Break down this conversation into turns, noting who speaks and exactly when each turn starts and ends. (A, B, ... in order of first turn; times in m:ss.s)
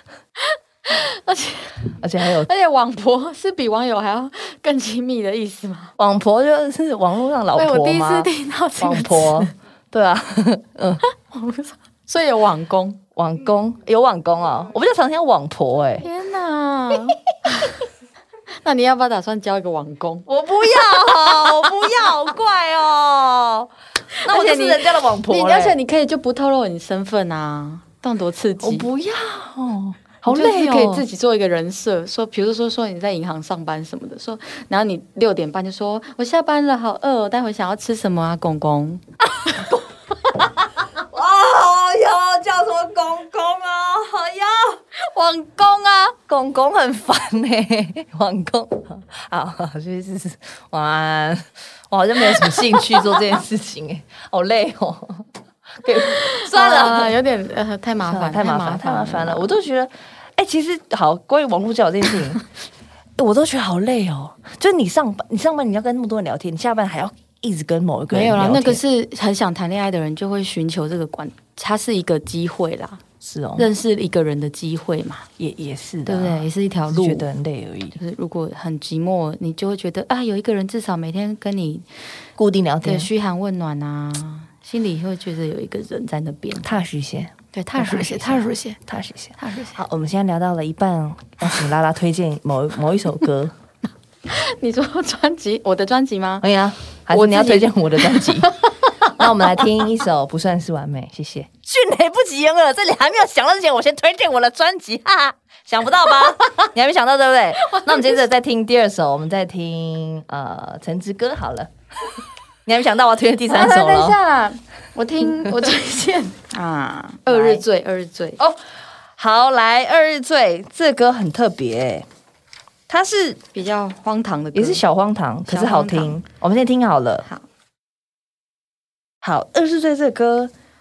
0:00.5-0:05.9 A
0:02.0-0:02.5 B
0:06.0-0:11.0 B
0:07.6-0:09.5 A
0:11.1-0:13.0 A
0:13.2-0:16.1 B
0:16.0-0:17.8 A
0:18.6-0:22.2 A
0:20.3-0:23.7 B
0:24.2-0:28.9 A
0:24.2-0:25.8 B
0:28.6-0:31.0 B
0:30.3-0:39.7 A
0:39.4-0:39.8 B
0:40.4-0:44.8 B
0:45.0-0:46.2 A
0:46.3-0:55.3 B
0:55.8-0:57.2 B
0:56.1-0:59.5 A
0:58.0-1:02.4 B
1:03.2-1:08.8 B
1:08.1-1:13.0 A
1:13.2-1:13.7 B
1:13.6-1:15.3 A
1:15.4-1:18.0 B
1:16.1-1:17.3 A
1:18.0-1:21.9 A
1:22.4-1:23.1 B
1:22.8-1:26.8 A
1:26.6-1:33.5 B
1:27.5-1:28.8 A
1:29.4-1:29.8 A
1:34.3-1:36.4 A
1:36.4-1:54.2 B
1:37.1-1:39.1 A
1:47.6-1:48.0 A
1:53.5-1:58.4 A
1:57.3-1:57.6 B
1:59.2-2:02.1 B
2:02.9-2:03.4 B
2:03.5-2:04.8 A
2:04.5-2:07.3 B
2:05.5-2:06.2 A
2:09.2-2:10.5 B